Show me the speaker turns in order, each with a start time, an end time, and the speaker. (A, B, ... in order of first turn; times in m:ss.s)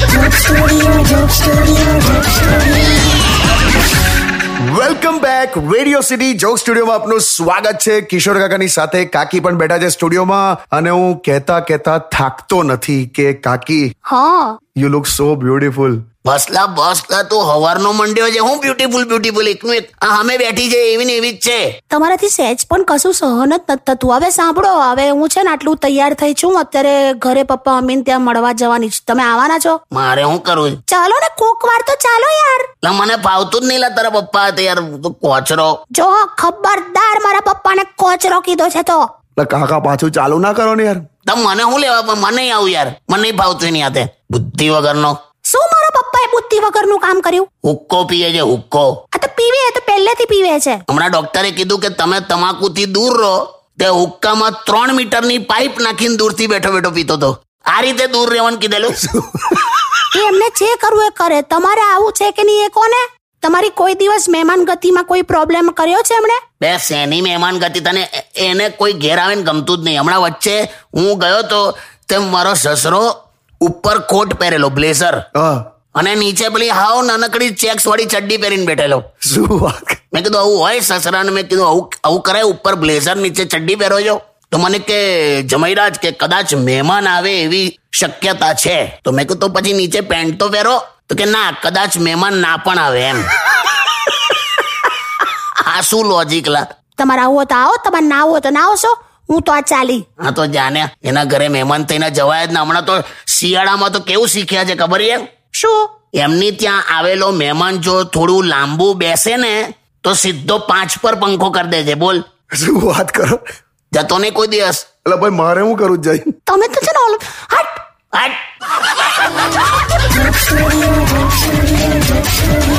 0:04.7-0:13.9 A
0:14.1-0:14.6 B
0:14.8-0:16.0 A
0:16.2-0:21.7 C
0:21.9-0:29.8 B
0:29.9-0:30.8 C
0:30.9-0:32.7 B
0:32.8-0:35.8 C
0:35.9-0:39.0 B
0:39.4-0:41.0 A
0:41.2-0:45.2 C
0:45.4-0:47.5 B
0:47.6-0:49.0 C
0:49.1-0:50.8 B
0:50.9-0:59.1 C
1:00.1-1:06.4 B
1:06.6-1:13.1 C
1:13.6-1:15.2 C
1:15.3-1:15.6 A
1:15.9-1:19.0 C
1:19.2-1:20.0 A
1:20.1-1:33.3 C
1:35.6-1:36.6 C
1:37.0-1:40.0 B
1:40.2-1:45.3 C
1:45.5-1:45.9 B
1:46.2-1:52.2 C
1:52.6-1:53.4 A
1:53.9-1:54.8 C
1:55.0-1:56.3 A
1:56.5-1:57.8 B
1:58.1-1:58.4 C